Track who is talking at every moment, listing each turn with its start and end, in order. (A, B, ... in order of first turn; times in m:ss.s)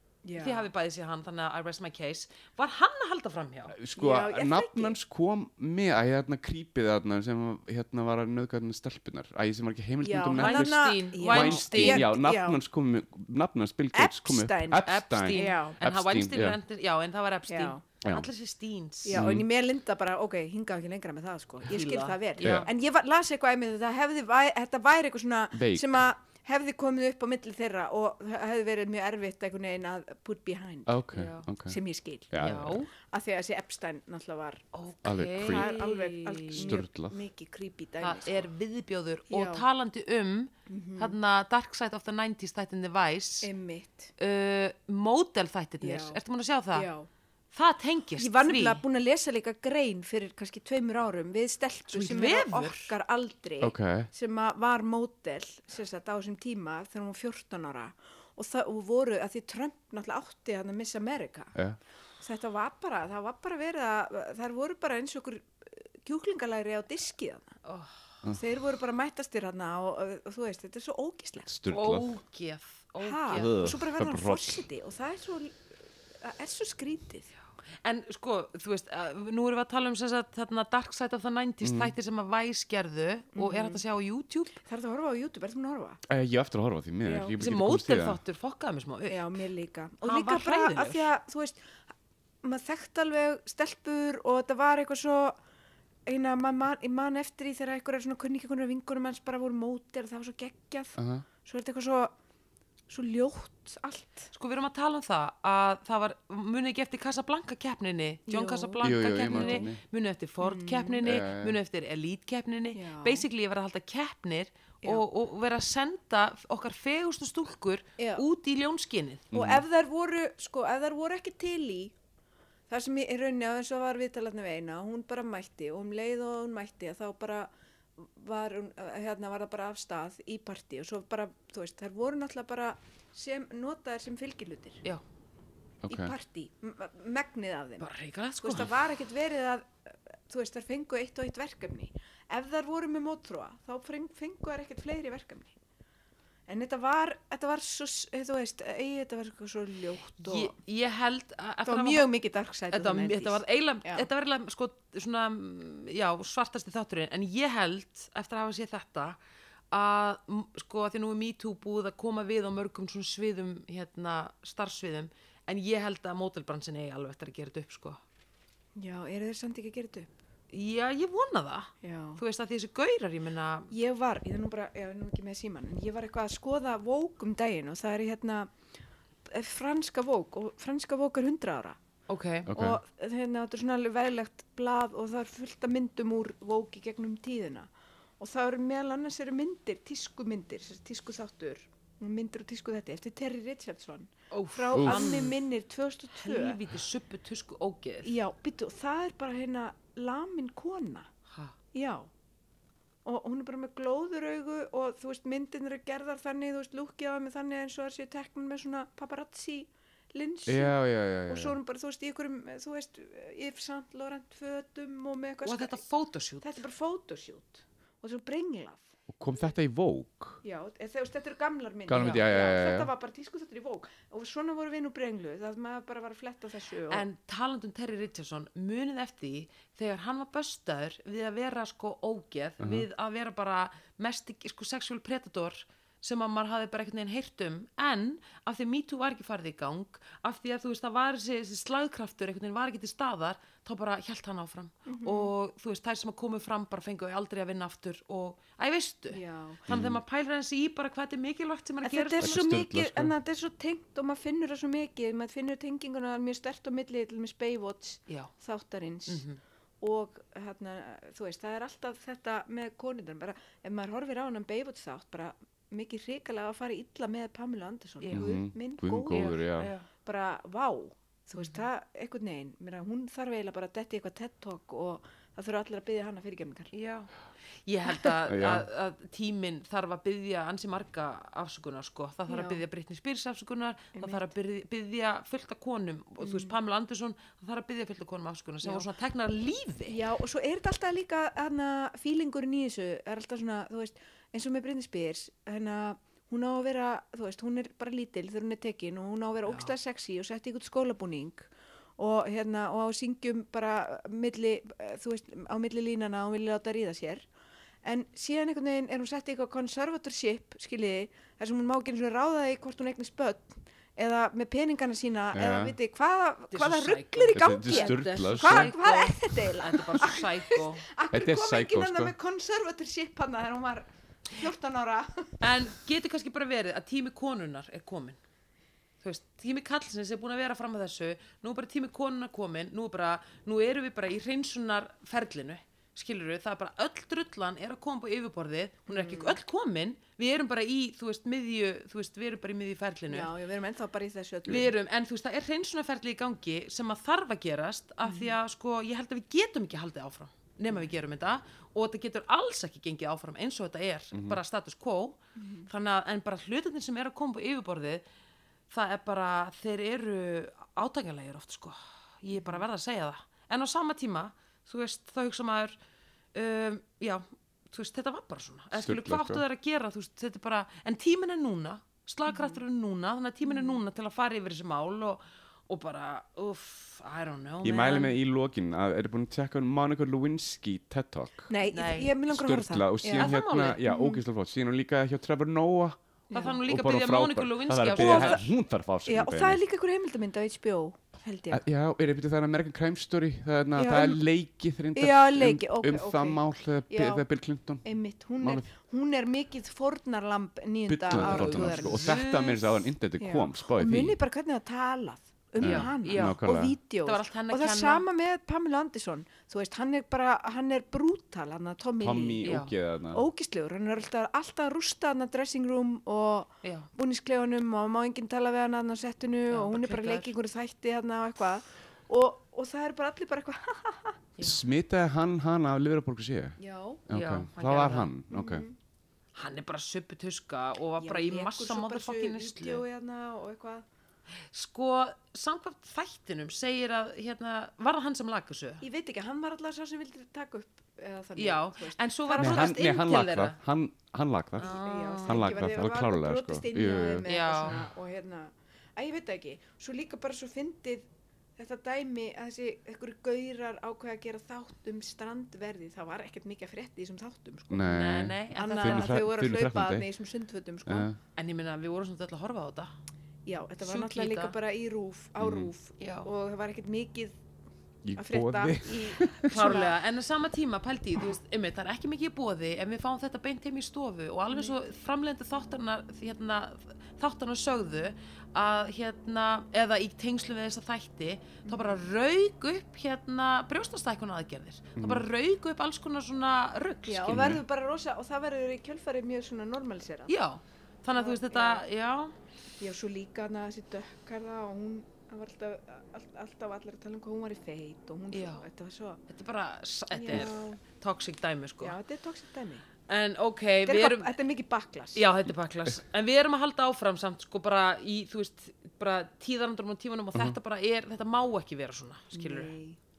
0:00.2-0:00.7 A
0:00.4-0:03.8 B
0:03.7-0:16.6 C
0:04.0-0:05.0 A
0:10.0-0:12.6 A
0:10.4-0:12.0 B
0:13.9-0:15.8 A
0:14.8-0:19.2 B
0:17.5-0:17.8 A
0:18.0-0:18.3 C
0:19.0-0:31.0 A
0:19.1-0:19.5 C
0:21.7-0:22.7 B
0:22.4-0:22.7 C
0:25.5-0:26.0 C
0:30.9-0:31.8 C
0:31.1-0:31.5 B
0:31.7-0:32.3 A
0:32.3-0:32.8 C
0:32.4-0:32.9 B
0:32.9-0:34.6 A
0:34.7-0:36.8 B
0:35.0-0:35.7 C
0:35.4-0:38.5 A
0:36.5-0:37.2 C
0:38.0-0:43.5 B
0:39.3-0:39.6 A
0:40.7-0:41.2 A
0:43.4-0:44.1 A
0:44.2-0:46.9 B
0:45.8-0:46.2 A
0:46.7-0:47.1 A
0:47.5-0:48.8 B
0:48.2-1:01.6 A
0:51.9-0:52.9 B
0:53.6-0:54.1 C
1:02.2-1:07.6 A
1:07.6-1:08.0 B
1:08.3-1:11.5 A
1:11.5-1:12.2 C
1:11.7-1:13.6 B
1:13.0-1:15.7 A
1:13.3-1:14.6 C
1:16.2-1:17.3 A
1:17.8-1:24.6 B
1:21.6-1:21.9 C
1:23.4-1:23.8 A
1:24.7-1:26.0 A
1:26.1-1:28.2 C
1:27.0-1:27.4 A
1:27.4-1:29.3 B
1:29.1-1:31.6 A
1:30.0-1:31.1 B
1:32.4-1:35.4 A
1:36.1-1:42.1 A
1:41.0-1:41.3 C
1:42.9-1:44.3 A
1:44.3-1:59.3 B
1:48.3-1:49.7 A
1:48.8-1:49.8 C
1:50.4-1:51.0 A
1:51.0-1:51.6 C
1:52.8-1:53.3 A
1:58.0-1:58.2 A
1:59.3-1:59.6 C
1:59.3-2:01.9 A
2:02.7-2:14.8 A
2:15.8-2:16.1 C
2:15.9-2:17.9 A
2:17.8-2:18.7 B
2:18.4-2:25.5 A
2:26.5-2:30.6 A
2:30.2-2:32.1 B
2:31.7-2:34.1 A
2:32.7-2:39.2 B
2:39.7-2:48.0 B
2:48.8-2:50.1 A
2:50.5-2:53.7 B
2:51.8-2:52.2 A
2:53.7-2:58.5 A
2:59.3-3:01.8 A
3:02.1-3:02.5 B
3:02.5-3:02.8 C
3:02.5-3:07.7 A
3:08.2-3:16.6 A
3:14.3-3:15.4 B
3:14.7-3:15.1 C
3:16.2-3:18.2 B
3:18.0-3:21.1 A
3:21.7-3:22.1 A
3:23.0-3:35.8 A
3:30.5-3:31.6 C
3:35.4-3:36.6 B
3:36.4-3:38.9 A
3:39.1-3:40.4 C
3:40.4-3:47.0 A
3:41.9-3:42.9 C
3:46.9-4:12.4 B
3:52.6-3:52.9 C
4:04.9-4:05.3 A
4:09.1-4:09.7 A
4:09.7-4:10.0 C
4:11.8-4:19.2 A
4:12.2-4:13.1 C
4:19.1-4:19.4 B
4:19.8-4:36.7 A
4:28.0-4:28.4 B
4:28.1-4:29.7 C
4:29.1-4:29.9 B
4:31.3-4:31.6 B
4:36.7-4:37.1 B
4:37.6-4:50.0 B
4:38.2-4:38.7 C
4:42.3-4:42.6 A
4:44.0-4:44.3 A
4:46.2-4:46.6 A
4:49.9-5:07.3 A
4:59.5-4:59.7 B
5:07.8-5:25.5 A
5:15.3-5:15.8 C
5:16.5-5:20.8 B
5:17.4-5:18.7 C
5:21.1-5:22.1 C
5:25.4-5:28.2 B
5:29.0-5:43.3 B
5:38.9-5:39.4 A
5:43.1-5:44.7 A
5:44.5-5:58.0 B
5:48.0-5:48.4 A
5:54.1-5:54.4 C
5:55.4-5:55.7 A
5:58.7-6:05.8 B
6:02.4-6:02.6 A
6:06.3-6:18.2 B
6:08.8-6:09.4 C
6:12.3-6:12.6 A
6:13.4-6:13.8 A
6:17.6-6:21.5 C
6:21.5-6:24.2 A
6:21.7-6:22.1 B
6:22.3-6:29.6 C
6:23.2-6:23.8 B
6:26.3-6:26.6 A
6:26.3-6:28.4 B
6:27.9-6:28.5 A
6:29.1-6:31.6 A
6:31.5-6:37.8 C
6:33.8-6:34.2 A
6:35.0-6:37.2 A
6:37.8-6:42.2 A
6:40.9-6:44.2 C
6:41.1-6:42.9 B
6:43.2-6:52.5 A
6:45.6-6:46.8 C
6:45.6-6:46.4 B
6:47.0-6:48.0 B
6:52.0-6:53.2 C
6:52.4-6:52.7 B
6:53.1-7:04.2 A
6:56.6-6:56.9 B
6:59.5-7:00.3 B
7:04.4-7:06.6 C
7:06.6-7:07.0 A
7:07.1-7:08.7 C
7:07.1-7:08.1 B
7:08.3-7:08.8 A
7:09.4-7:12.8 B
7:11.0-7:13.8 A
7:14.5-7:18.8 B
7:18.8-7:22.8 A
7:21.4-7:23.6 B
7:22.4-7:27.8 C
7:24.6-7:25.6 B
7:24.6-7:38.0 A
7:27.3-7:27.8 B
7:37.7-7:40.1 C
7:37.9-7:39.2 B
7:38.6-7:41.1 A
7:40.9-7:41.2 C
7:41.4-7:42.9 B
7:43.5-7:47.4 A
7:43.8-7:44.6 B
7:45.4-7:45.7 C
7:46.0-7:46.3 B
7:48.0-7:49.7 C
7:48.2-7:50.0 A
7:49.5-8:07.6 B
8:01.7-8:02.0 A
8:05.0-8:05.3 C
8:07.1-8:10.3 A
8:07.3-8:07.6 C
8:10.3-8:12.3 B
8:11.2-8:11.8 A
8:12.8-8:19.2 A
8:18.3-8:18.6 B
8:19.3-8:22.0 B
8:20.1-8:20.8 A
8:21.8-8:22.8 A
8:23.1-8:24.3 B
8:23.8-8:25.3 A
8:25.1-8:32.7 B
8:32.3-8:33.0 A